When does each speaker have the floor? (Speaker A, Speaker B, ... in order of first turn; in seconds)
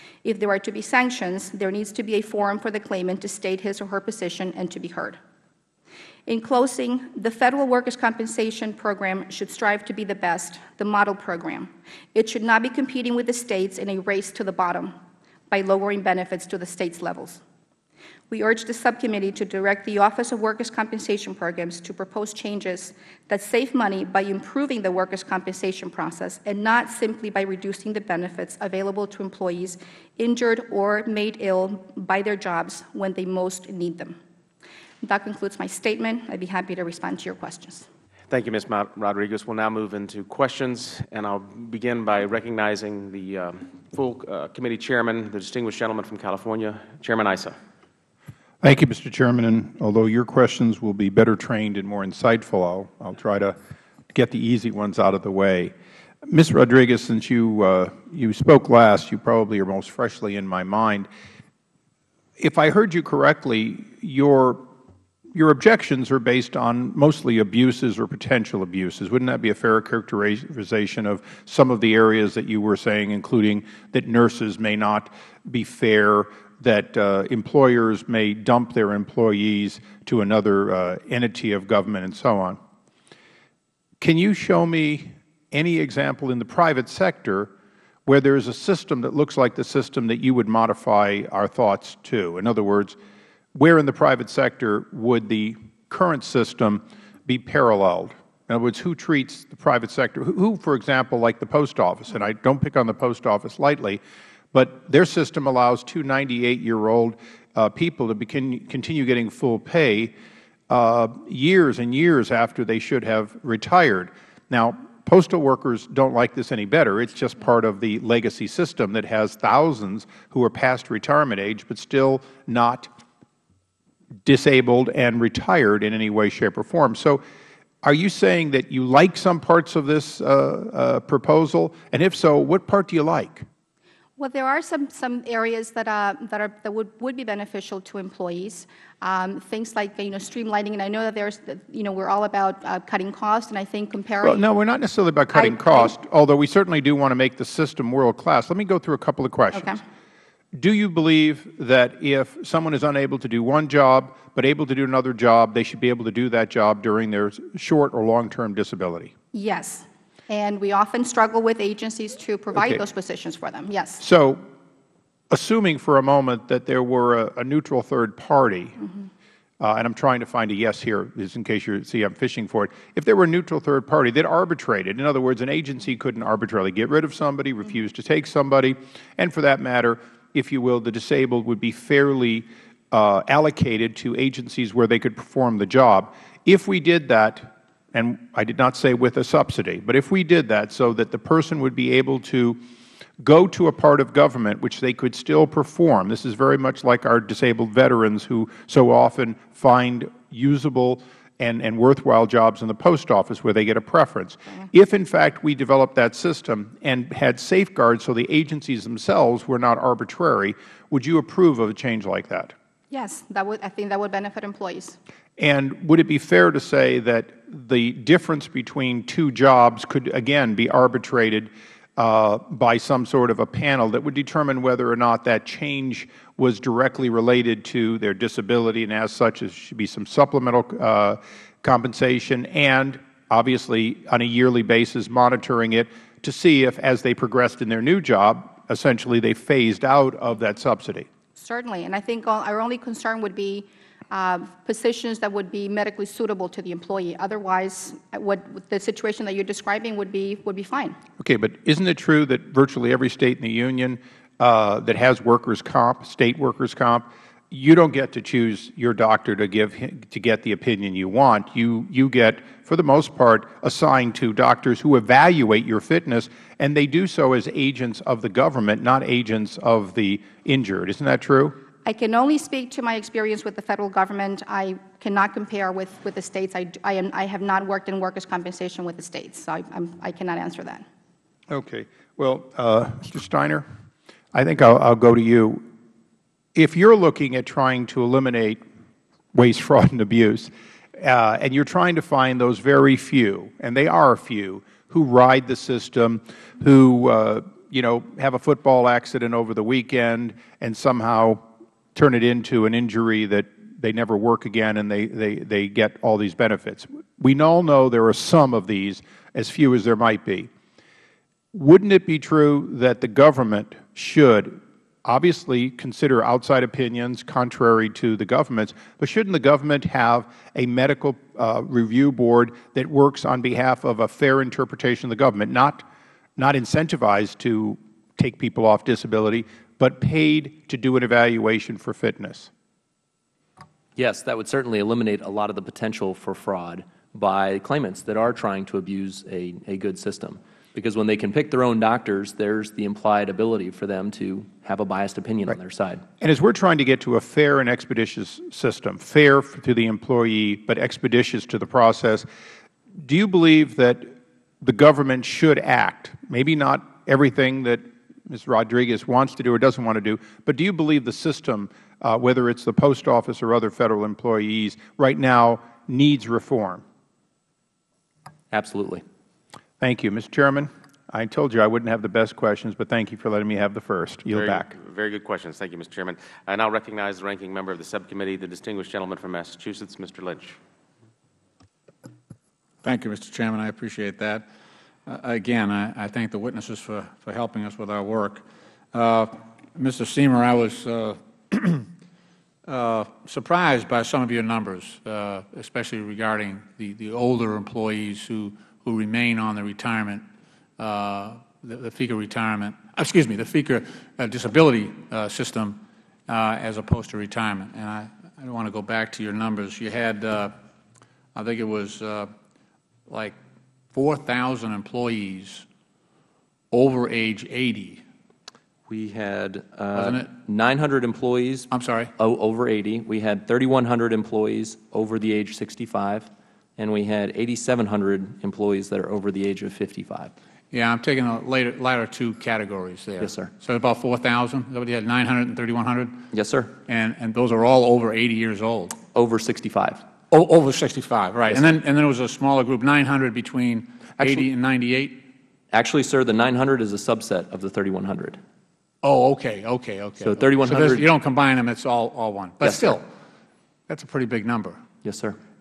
Speaker A: 0.2-5.2, 6.3-15.0, 15.5-17.4, 18.3-34.2, 35.0-37.9, 134.2-144.5, 145.3-145.9, 149.5-149.8, 159.3-164.0, 212.9-215.0, 241.4-251.0, 271.9-280.9
Speaker B: 38.3-47.6, 374.3-380.6
Speaker C: 48.6-53.6, 54.1-55.7, 56.3-61.1, 62.4-64.7, 65.3-82.6, 84.0-87.5, 88.1-93.0, 93.5-104.0, 104.5-110.1, 110.7-122.9, 124.2-127.2, 127.8-133.5, 144.2-149.8, 150.5-159.1, 162.6-162.8, 164.0-164.4, 165.3-168.8, 169.6-192.6, 193.2-212.6, 215.4-241.1, 251.2-271.6, 281.5-283.7, 284.3-285.7, 286.6-288.6, 289.3-310.5, 311.5-325.9, 326.4-332.5, 346.2-352.3, 353.0-366.8, 369.8-374.7
Speaker D: 334.0-346.0, 368.5-369.0, 418.9-430.3, 433.2-433.5, 436.3-436.7, 439.1-440.0, 444.2-444.4, 445.7-448.4, 450.2-451.1, 452.6-453.0, 455.0-455.4
Speaker E: 382.8-384.5, 385.1-391.9, 392.7-400.2, 400.8-410.6, 411.4-412.3, 413.1-413.4, 413.9-415.7, 416.7-418.0, 419.9-420.3, 421.7-422.1, 430.7-436.3, 436.9-439.0, 440.3-445.2, 449.0-453.1, 453.9-454.8